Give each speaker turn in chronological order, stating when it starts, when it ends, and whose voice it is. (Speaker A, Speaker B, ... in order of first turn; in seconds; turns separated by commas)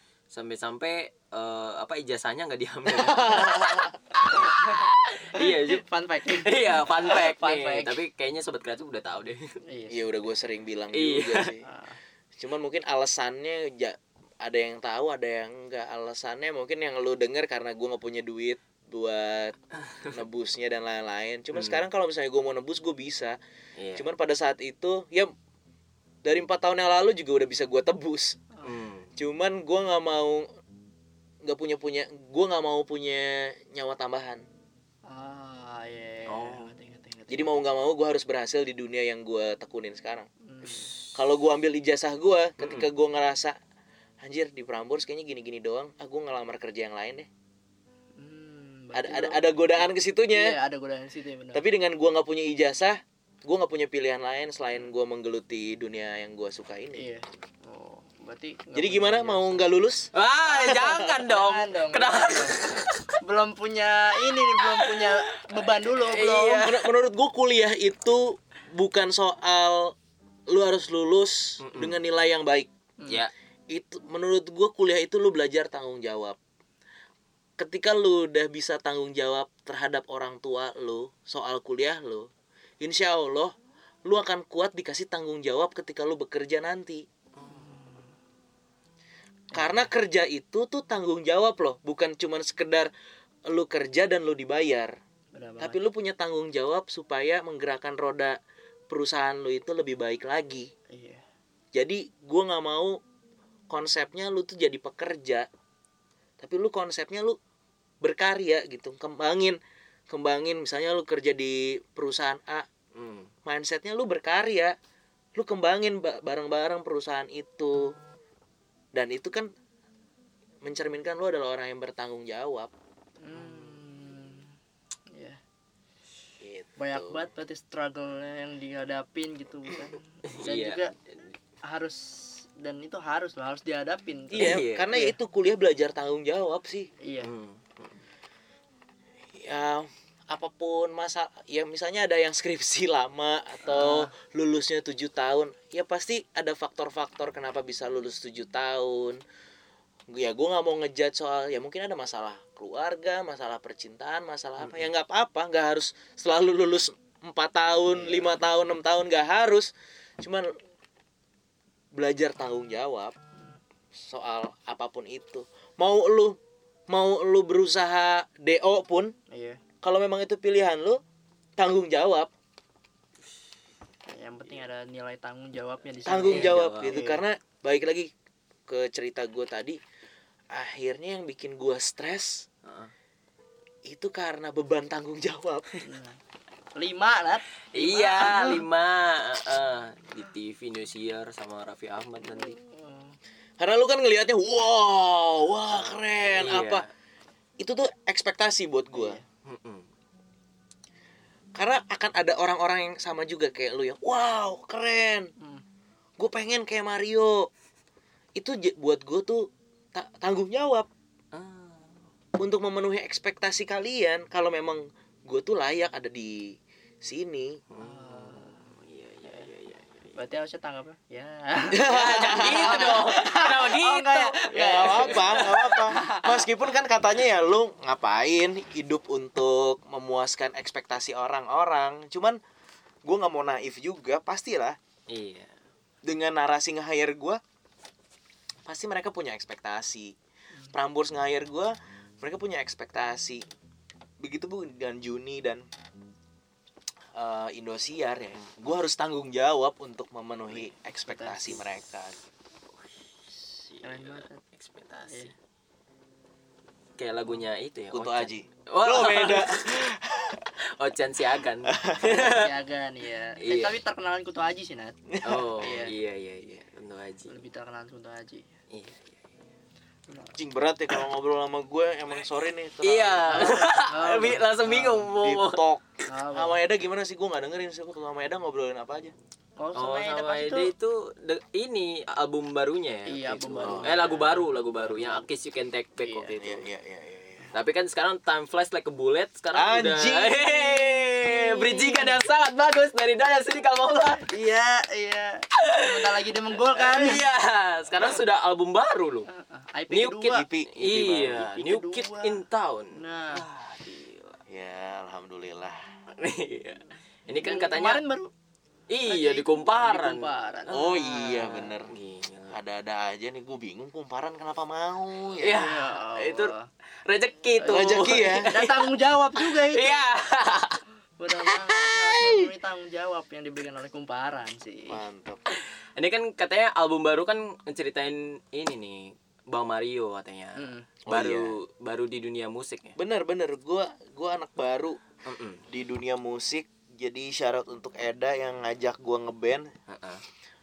Speaker A: 0.3-9.6, Speaker B: 2.9-3.9, Speaker C: 4.3-8.0, Speaker C: 9.7-10.2, Speaker B: 9.9-11.6, Speaker A: 10.9-11.5, Speaker C: 11.6-12.0, Speaker B: 12.4-23.4, Speaker A: 21.5-21.8, Speaker A: 23.8-24.1, Speaker B: 23.9-25.3, Speaker B: 26.2-28.4, Speaker A: 28.6-29.1, Speaker B: 29.2-30.4, Speaker B: 31.4-34.4, Speaker C: 35.0-37.5, Speaker A: 36.3-36.7, Speaker B: 37.3-40.3, Speaker C: 40.5-40.9, Speaker B: 41.1-43.6, Speaker A: 42.6-42.9, Speaker B: 44.2-47.3, Speaker C: 48.2-49.4, Speaker B: 48.9-50.5, Speaker C: 50.3-51.6, Speaker B: 51.5-57.1, Speaker C: 57.0-59.6, Speaker B: 58.7-61.2, Speaker A: 60.1-63.1, Speaker C: 60.5-66.7, Speaker A: 64.6-66.9, Speaker B: 66.5-69.9, Speaker B: 70.5-72.7, Speaker A: 71.6-72.0, Speaker B: 73.7-76.4, Speaker B: 77.6-82.3, Speaker B: 82.8-83.5, Speaker B: 84.0-87.0, Speaker A: 87.4-87.8, Speaker C: 87.4-88.1, Speaker B: 89.5-92.9, Speaker B: 93.5-94.9, Speaker C: 95.3-95.8, Speaker B: 95.6-98.4, Speaker B: 98.9-100.7, Speaker C: 100.9-101.2, Speaker B: 101.7-103.0, Speaker B: 103.7-105.5, Speaker B: 106.4-107.4, Speaker B: 108.0-112.7, Speaker A: 112.9-113.3, Speaker B: 113.5-114.7, Speaker B: 115.3-118.0, Speaker B: 118.9-119.5, Speaker B: 120.6-122.7, Speaker C: 123.2-124.5, Speaker C: 125.1-125.4, Speaker B: 126.4-127.2, Speaker C: 126.8-130.9, Speaker A: 130.3-130.8, Speaker C: 131.6-135.1, Speaker B: 134.3-136.9, Speaker A: 134.3-134.9, Speaker C: 137.0-137.3, Speaker A: 137.2-138.0, Speaker B: 139.3-149.2, Speaker C: 143.7-144.1, Speaker B: 150.1-160.5, Speaker B: 161.9-163.1, Speaker B: 163.9-166.4, Speaker B: 166.9-169.1, Speaker C: 169.3-169.6, Speaker B: 169.8-171.0, Speaker B: 171.6-172.3, Speaker C: 174.1-177.2, Speaker B: 176.1-178.1, Speaker A: 176.3-177.0, Speaker B: 178.7-179.8, Speaker B: 180.5-182.5, Speaker A: 182.6-182.9, Speaker B: 183.9-185.7, Speaker C: 185.8-186.2, Speaker C: 186.7-188.6, Speaker A: 187.7-192.6, Speaker C: 192.3-193.2, Speaker B: 193.6-196.8, Speaker A: 196.3-196.9, Speaker B: 197.6-199.2, Speaker C: 198.9-199.2, Speaker A: 199.4-199.8, Speaker B: 201.6-205.3, Speaker B: 206.2-207.5, Speaker B: 208.4-210.9, Speaker A: 211.3-211.9, Speaker B: 212.4-217.6, Speaker A: 217.7-220.1, Speaker C: 217.8-218.6, Speaker C: 220.2-226.3, Speaker B: 221.7-223.2, Speaker A: 221.8-225.7, Speaker B: 224.0-232.4, Speaker B: 233.1-234.8, Speaker A: 235.1-235.5, Speaker B: 236.0-237.4, Speaker B: 238.6-240.1, Speaker B: 240.7-243.4, Speaker B: 244.2-245.6, Speaker B: 247.1-252.2, Speaker C: 251.0-251.6, Speaker C: 253.6-254.4, Speaker A: 253.7-255.3, Speaker A: 257.0-259.9, Speaker B: 257.9-260.4, Speaker A: 260.8-262.5, Speaker B: 261.7-262.2, Speaker C: 262.0-265.0, Speaker A: 263.4-263.8, Speaker B: 265.1-265.5, Speaker A: 265.2-267.3, Speaker C: 265.6-265.9, Speaker C: 267.3-268.4, Speaker A: 268.7-269.1, Speaker C: 270.1-270.4, Speaker B: 270.4-273.6, Speaker A: 272.8-275.6, Speaker C: 273.3-275.1, Speaker B: 275.1-279.1, Speaker C: 276.1-276.6, Speaker C: 279.6-280.7, Speaker A: 279.7-286.6, Speaker C: 283.1-285.2, Speaker B: 283.6-284.1, Speaker C: 286.0-286.3, Speaker B: 286.3-287.5, Speaker A: 287.5-294.3, Speaker B: 289.5-291.1, Speaker C: 291.2-292.2, Speaker C: 294.3-297.2, Speaker A: 295.6-299.3, Speaker C: 299.3-300.4, Speaker A: 299.9-304.4, Speaker B: 300.3-301.4, Speaker C: 301.2-302.4, Speaker C: 302.9-303.4, Speaker B: 304.5-305.8, Speaker A: 306.2-308.0, Speaker C: 307.3-308.3, Speaker A: 308.9-312.6, Speaker C: 309.1-310.8, Speaker B: 310.7-311.9, Speaker B: 312.5-315.6, Speaker A: 315.4-316.5, Speaker C: 315.4-316.6, Speaker A: 317.1-320.8, Speaker C: 317.6-320.1, Speaker B: 317.7-318.5, Speaker C: 321.2-325.0, Speaker A: 321.4-322.3, Speaker B: 324.9-325.4, Speaker A: 325.5-332.9, Speaker C: 330.6-330.9, Speaker B: 331.1-331.5, Speaker B: 333.0-335.0, Speaker A: 335.2-335.6, Speaker B: 335.7-339.7, Speaker A: 339.9-340.2